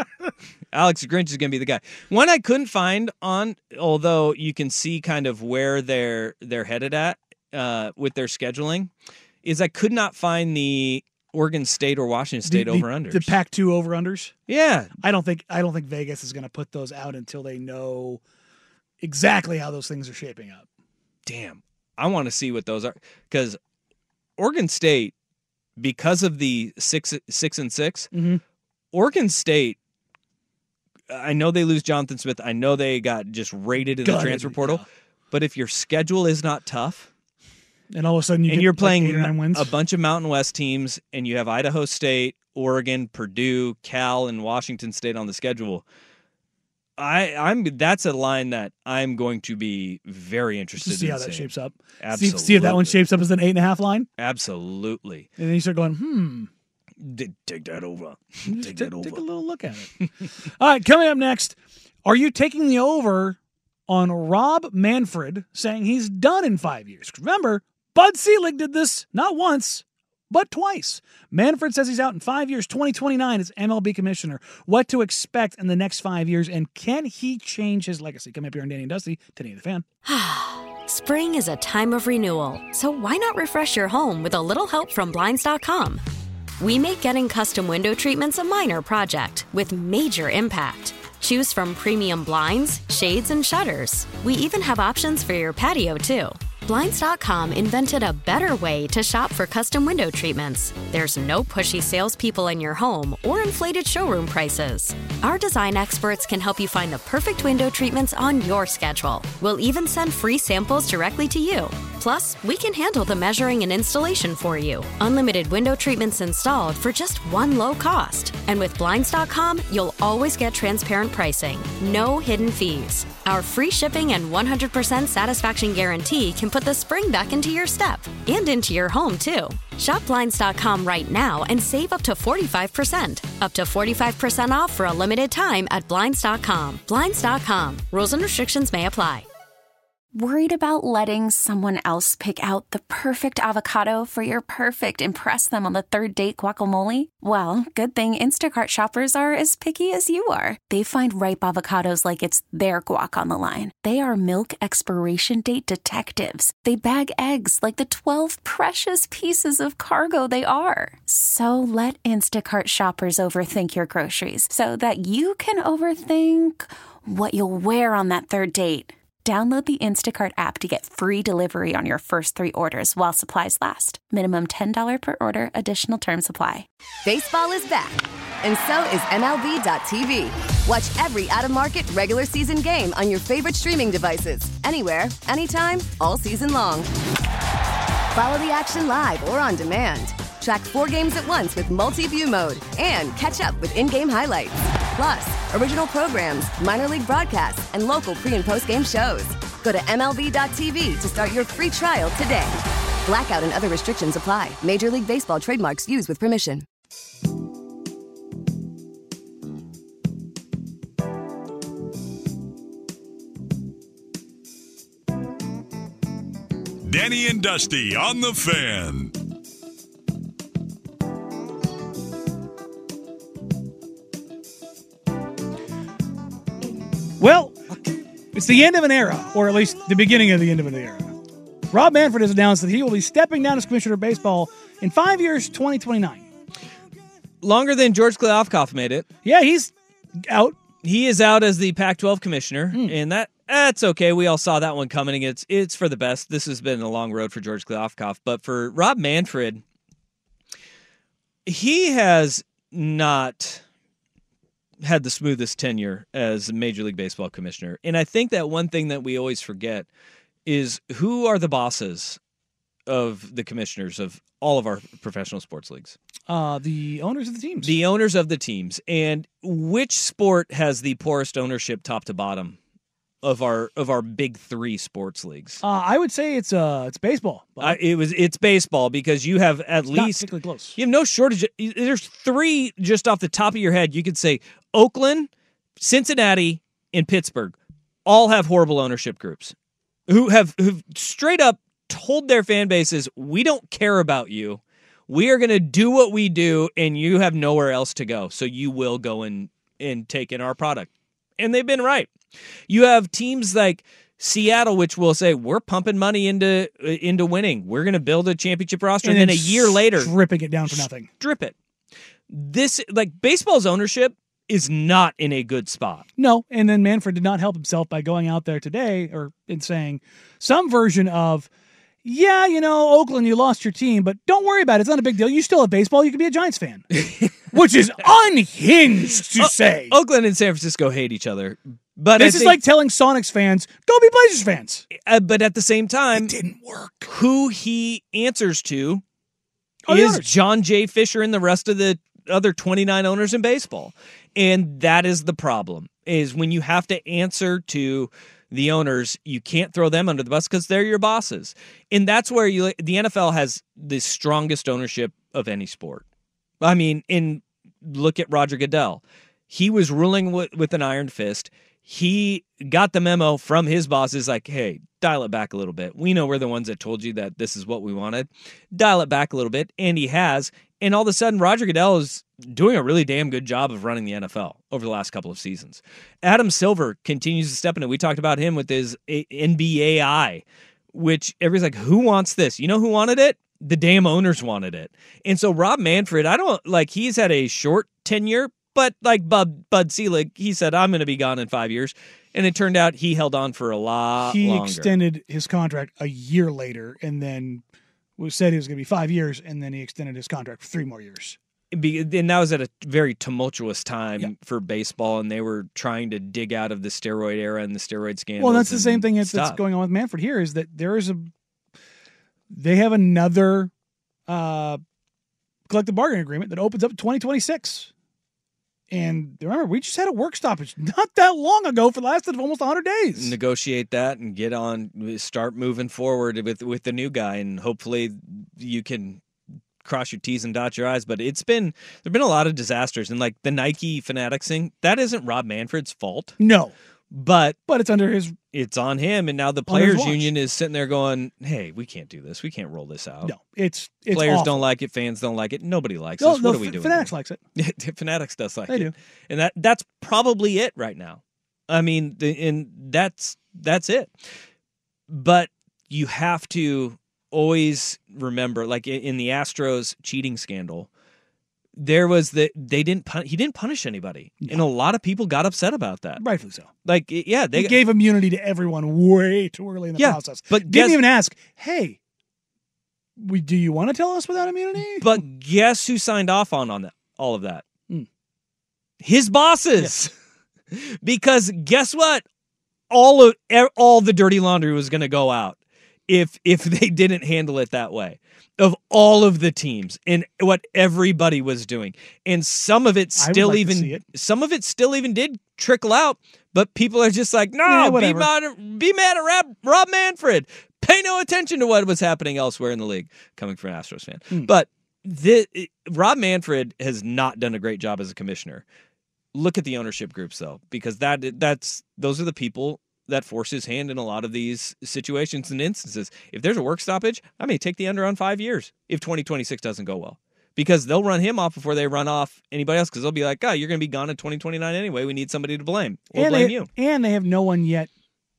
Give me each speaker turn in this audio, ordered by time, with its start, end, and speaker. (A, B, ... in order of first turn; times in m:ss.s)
0:00.7-0:08.9 A
0:09.4-0:13.3 A
0:12.4-0:14.3 B
0:14.5-0:14.9 A
0:15.0-0:18.2 B
0:19.0-0:20.6 B
0:21.2-0:23.6 A
0:24.4-0:25.1 A
0:25.8-0:28.1 A
0:28.1-0:28.4 B
0:28.9-0:29.8 A
0:31.1-0:37.1 A
0:34.0-0:34.8 B
0:37.9-0:39.7 B
0:38.5-0:45.8 A
0:47.0-0:53.0 A
0:50.8-0:54.1 B
0:54.2-0:55.3 A
0:55.4-0:56.5 B
0:57.0-0:59.2 A
0:58.4-1:19.8 B
1:20.0-1:26.0 C
1:26.6-2:19.3 C
2:20.1-2:56.6 D
2:57.0-3:06.9 E
3:08.1-3:26.6 E
3:36.8-3:39.1 F
3:47.2-3:47.8 B
3:48.3-3:51.1 B
3:51.7-3:56.2 B
3:57.4-3:59.1 A
3:59.2-4:00.6 B
4:00.8-4:09.6 A
4:11.4-4:13.6 A
4:14.8-4:19.9 A
4:20.4-4:22.2 A
4:22.9-4:25.9 A
4:26.3-4:27.7 B
4:27.6-4:32.6 A
4:33.2-4:35.6 A
4:35.6-4:37.8 B
4:37.6-4:45.3 A
4:39.9-4:40.8 B
4:45.8-4:49.5 A
4:50.1-5:02.1 A
5:02.7-5:10.1 A
5:09.0-5:11.1 B
5:10.7-5:11.5 A
5:12.3-5:16.0 A
5:16.2-5:21.5 B
5:22.0-5:27.0 B
5:27.5-5:30.0 B
5:29.1-5:32.6 A
5:32.2-5:34.9 B
5:34.9-5:36.3 A
5:36.1-5:37.1 B
5:37.0-5:39.0 A
5:39.9-5:40.3 B
5:39.9-5:56.0 A
5:56.6-6:34.9 A
6:34.2-6:37.6 B
6:38.2-6:41.4 B
6:41.7-6:49.6 A
6:48.4-6:51.3 B
6:52.5-6:53.7 B
6:54.3-6:54.8 B
6:55.7-6:57.9 B
6:58.9-7:03.3 B
7:03.2-7:09.2 A
7:09.8-7:16.4 A
7:16.4-7:16.7 B
7:17.1-7:17.6 A
7:17.7-7:18.4 B
7:18.5-7:23.3 A
7:19.7-7:20.3 B
7:23.2-7:24.6 B
7:24.1-7:34.1 A
7:26.2-7:27.4 B
7:28.7-7:28.9 B
7:35.1-7:40.9 A
7:41.8-7:46.2 A
7:46.2-7:46.7 B
7:46.8-7:47.8 A
7:47.6-7:52.0 B
7:50.0-7:51.0 A
7:53.2-7:55.2 B
7:55.0-7:57.6 A
7:59.0-8:00.1 A
8:00.7-8:02.2 A
8:02.9-8:28.6 A
8:13.2-8:14.0 B
8:17.6-8:18.3 B
8:29.3-8:46.7 A
8:46.1-8:47.9 B